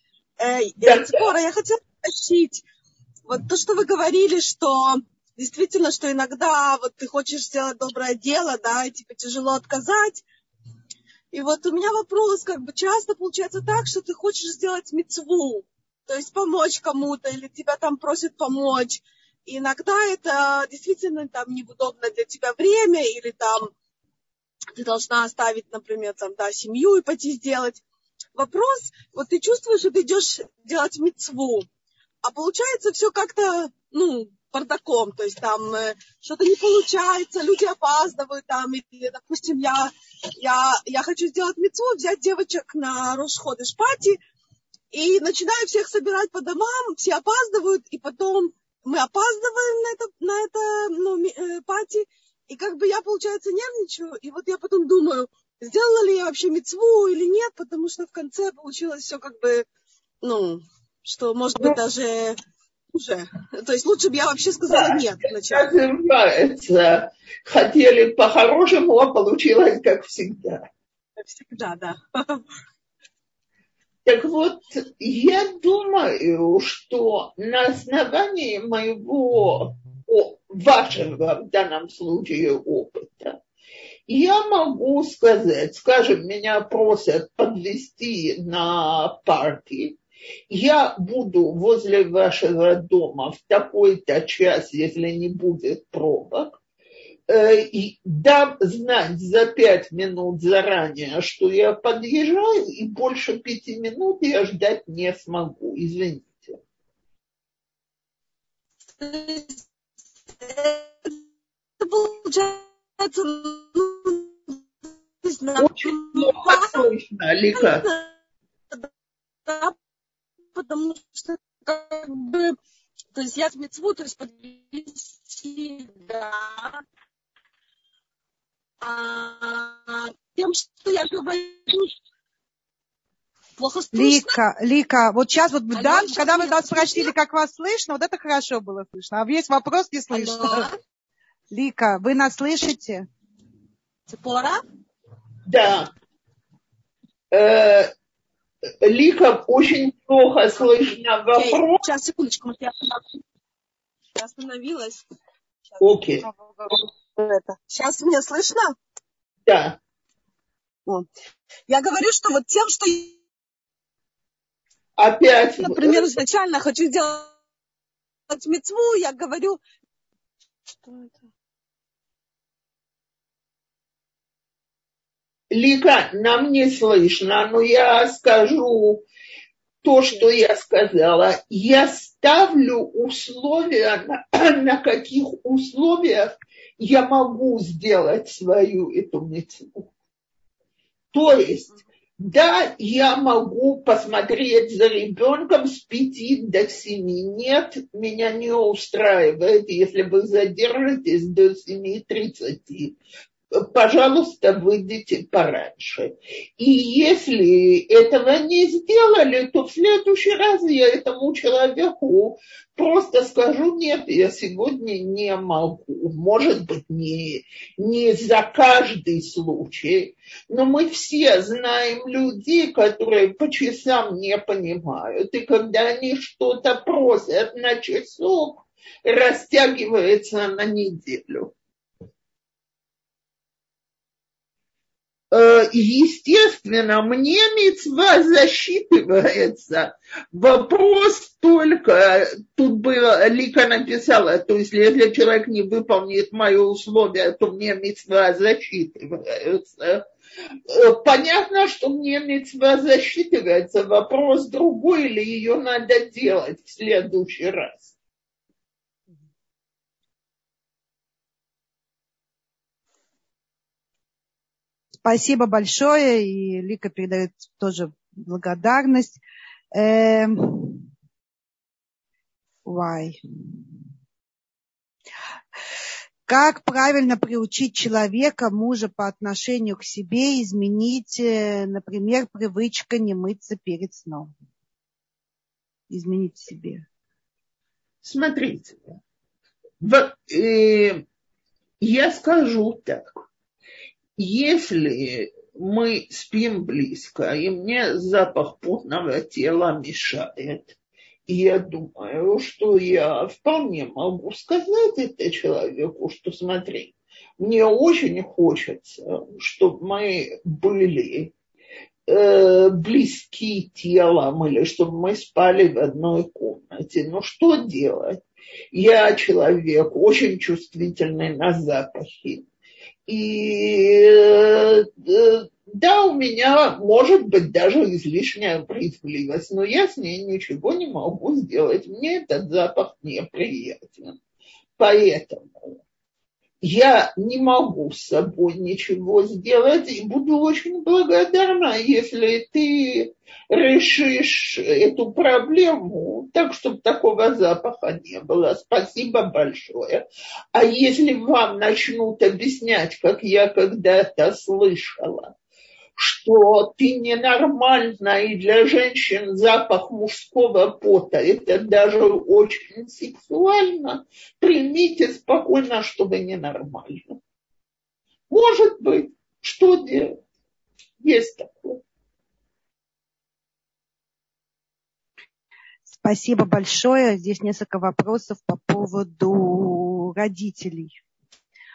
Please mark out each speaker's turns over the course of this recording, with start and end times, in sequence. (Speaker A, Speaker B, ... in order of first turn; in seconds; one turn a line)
Speaker A: 0.4-2.6
Speaker B: 0.8-1.2
Speaker A: 3.3-10.2
Speaker A: 11.3-23.7
Speaker A: 24.7-27.8
Speaker A: 28.3-31.7
Speaker A: 32.2-44.2
Speaker A: 44.9-59.7
Speaker A: 60.2-62.4
Speaker A: 62.9-65.7
Speaker B: 64.7-70.7
Speaker A: 71.2-72.4
Speaker B: 74.0-83.4
Speaker B: 84.1-90.0
Speaker B: 90.5-96.6
Speaker B: 97.3-106.6
Speaker A: 109.0-109.6
Speaker A: 110.4-111.2
Speaker A: 111.8-114.6
Speaker A: 115.2-116.8
Speaker B: 115.6-117.9
Speaker A: 117.5-118.1
Speaker A: 119.5-119.8
Speaker A: 120.5-122.6
Speaker A: 123.1-126.8
Speaker A: 128.8-131.9
Speaker A: 133.6-134.4
Speaker C: 133.9-140.7
Speaker A: 135.7-137.1
Speaker A: 140.1-140.8
Speaker C: 141.5-143.1
Speaker A: 144.1-144.6
Speaker B: 145.5-145.9
Speaker B: 147.3-147.9
Speaker B: 148.8-151.8
Speaker A: 151.3-153.0
Speaker A: 154.1-155.1
Speaker A: 155.7-156.6
Speaker B: 155.8-156.3
Speaker A: 157.2-158.8
Speaker B: 159.5-159.8
Speaker A: 161.7-163.2
Speaker B: 165.0-166.1
Speaker A: 165.6-167.3
Speaker A: 168.3-169.6
Speaker A: 170.8-171.1
Speaker B: 175.5-179.0
Speaker B: 179.8-189.9
Speaker B: 191.1-203.0
Speaker B: 203.6-231.5
Speaker B: 235.3-250.0
Speaker B: 250.7-257.9
Speaker C: 265.0-269.2
Speaker C: 269.7-270.9
Speaker C: 272.6-273.2
Speaker C: 276.3-284.3
Speaker C: 285.9-286.8
Speaker B: 288.0-289.0
Speaker B: 289.8-291.0
Speaker B: 291.8-293.3
Speaker B: 294.2-300.7
Speaker B: 301.3-311.3
Speaker B: 312.1-318.2
Speaker B: 318.7-322.4
Speaker B: 323.1-334.2
Speaker B: 334.8-335.8
Speaker B: 336.6-350.0
Speaker B: 350.5-355.3
Speaker B: 356.0-367.2
Speaker B: 368.3-370.2
Speaker B: 371.0-371.8
Speaker C: 375.9-381.0